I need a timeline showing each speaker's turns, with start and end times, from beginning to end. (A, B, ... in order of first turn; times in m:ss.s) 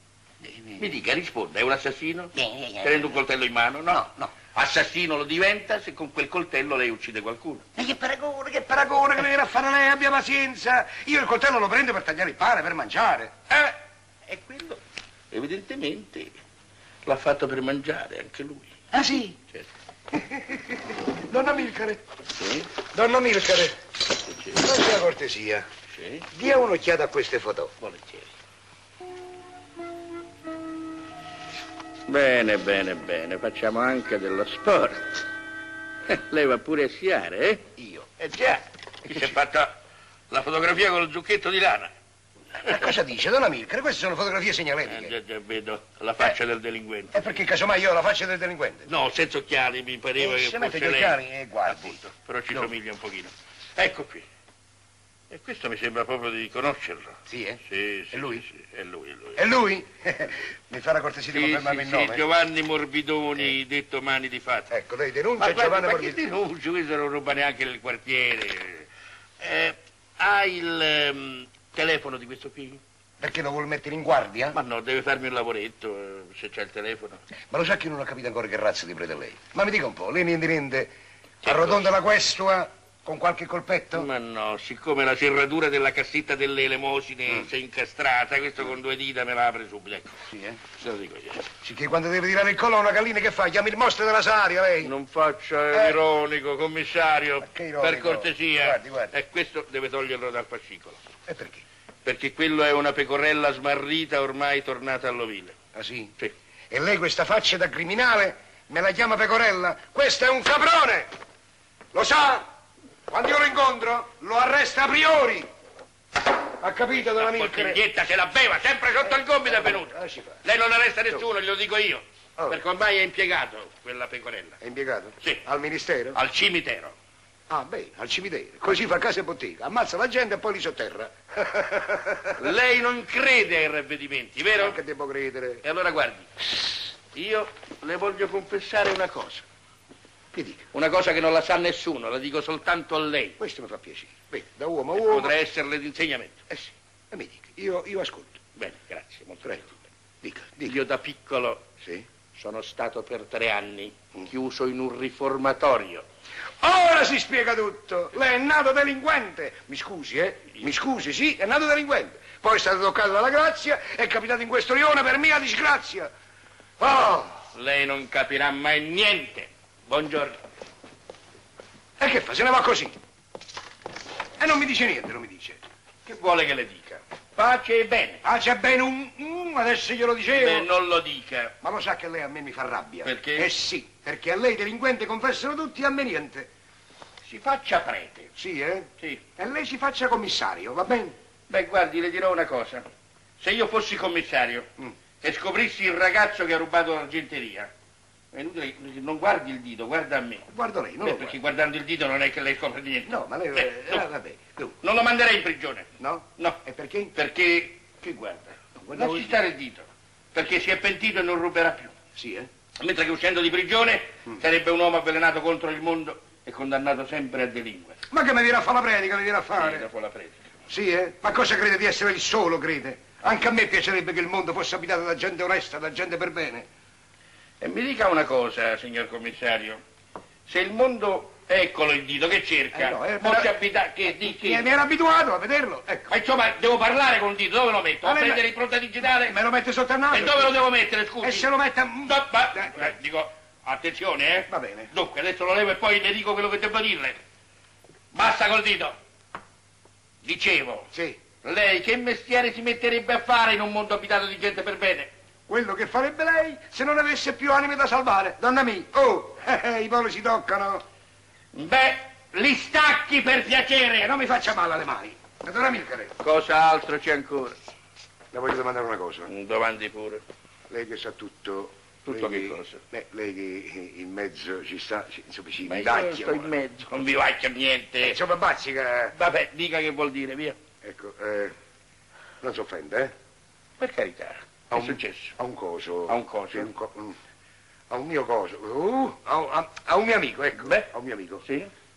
0:00.4-0:00.9 A
0:00.8-0:07.6 B
0:02.4-0:03.2 A
0:03.9-0:04.3 A
0:07.8-0:13.3 A
0:13.5-0:13.8 B
0:14.3-0:14.8 B
0:15.3-0:16.3 B
0:17.1-0:18.7 B
0:18.9-0:19.4 A
0:20.1-0:22.0 A
0:22.4-0:22.7 B
0:22.9-0:23.7 A
0:24.3-0:24.6 B
0:24.5-0:25.7 A
0:25.9-0:26.3 B
0:26.3-0:27.7 A
0:27.8-0:28.3 B
0:32.1-0:35.2 B
0:36.1-0:37.7 B
0:37.8-0:38.3 A
0:38.2-0:39.7 B
0:39.1-0:39.4 A
0:40.3-0:41.9 B
0:42.6-0:42.9 B
0:42.6-0:45.1 A
0:44.9-0:47.4 B
0:47.1-0:48.9 A
0:48.9-0:54.3 B
0:50.2-0:52.0 A
0:55.3-0:59.5 B
0:57.3-0:58.4 A
0:59.4-1:02.2 A
1:01.3-1:04.7 B
1:04.7-1:06.2 A
1:05.4-1:08.9 B
1:09.4-1:12.8 B
1:13.2-1:14.6 A
1:14.5-1:17.2 B
1:17.5-1:20.9 A
1:21.4-1:21.9 B
1:21.4-1:24.1 A
1:23.9-1:31.5 B
1:30.3-1:30.6 A
1:31.6-1:34.9 A
1:34.8-1:41.0 B
1:35.7-1:36.0 A
1:37.4-1:39.2 A
1:41.3-1:41.6 A
1:42.0-1:45.6 B
1:45.7-1:46.1 A
1:46.7-1:51.1 A
1:51.9-1:52.4 A
1:53.1-1:55.5 A
1:56.6-1:57.8 A
1:57.0-2:04.6 B
1:59.0-2:00.4 A
2:04.6-2:06.2 A
2:06.1-2:07.0 B
2:07.5-2:12.5 A
2:12.4-2:14.8 B
2:14.6-2:15.6 A
2:15.6-2:16.3 B
2:17.1-2:19.5 B
2:20.3-2:20.6 A
2:20.7-2:23.4 B
2:23.4-2:25.3 A
2:25.0-2:26.4 B
2:26.5-2:28.4 A
2:28.6-2:29.8 B
2:30.2-2:30.8 A
2:30.6-2:31.7 B
2:31.8-2:32.1 A
2:32.3-2:36.0 B
2:36.6-2:46.1 A
2:46.8-2:47.4 A
2:47.5-2:50.4 B
2:52.0-2:52.9 A
2:54.4-2:55.6 A
2:56.0-2:58.2 B
2:58.2-3:00.7 A
3:00.3-3:01.6 B
3:01.6-3:06.5 A
3:03.0-3:03.5 B
3:07.2-3:08.3 B
3:08.4-3:11.2 A
3:11.5-3:12.9 B
3:13.4-3:14.7 B
3:15.2-3:17.7 B
3:18.3-3:20.5 B
3:20.5-3:21.4 A
3:21.0-3:24.1 B
3:23.1-3:24.8 A
3:24.8-3:26.6 B
3:26.0-3:27.1 A
3:27.1-3:31.9 B
3:28.8-3:29.4 A
3:32.2-3:32.5 A
3:32.8-3:38.0 B
3:38.1-3:39.9 A
3:39.6-3:40.4 B
3:40.7-3:46.7 A
3:47.6-3:49.8 B
3:50.5-3:54.7 B
3:52.7-3:53.6 A
3:54.1-3:56.1 A
3:56.1-3:59.4 B
3:58.0-3:58.4 A
3:59.1-4:00.6 A
4:00.1-4:01.5 B
4:01.2-4:02.9 A
4:02.0-4:07.2 B
4:04.5-4:04.9 A
4:08.1-4:08.9 B
4:10.2-4:10.9 B
4:10.9-4:11.2 A
4:11.4-4:15.1 B
4:15.5-4:20.8 A
4:21.5-4:24.1 B
4:24.0-4:26.2 A
4:26.2-4:27.6 B
4:28.3-4:29.3 A
4:29.3-4:30.2 B
4:30.7-4:36.5 A
4:32.1-4:32.8 B
4:35.6-4:38.2 B
4:38.0-4:39.2 A
4:39.1-4:40.6 B
4:40.8-4:41.5 A
4:42.4-4:43.1 A
4:43.8-4:45.3 B
4:44.7-4:47.2 A
4:46.1-4:46.7 B
4:47.9-4:51.4 A
4:50.6-4:50.9 B
4:51.4-4:51.7 B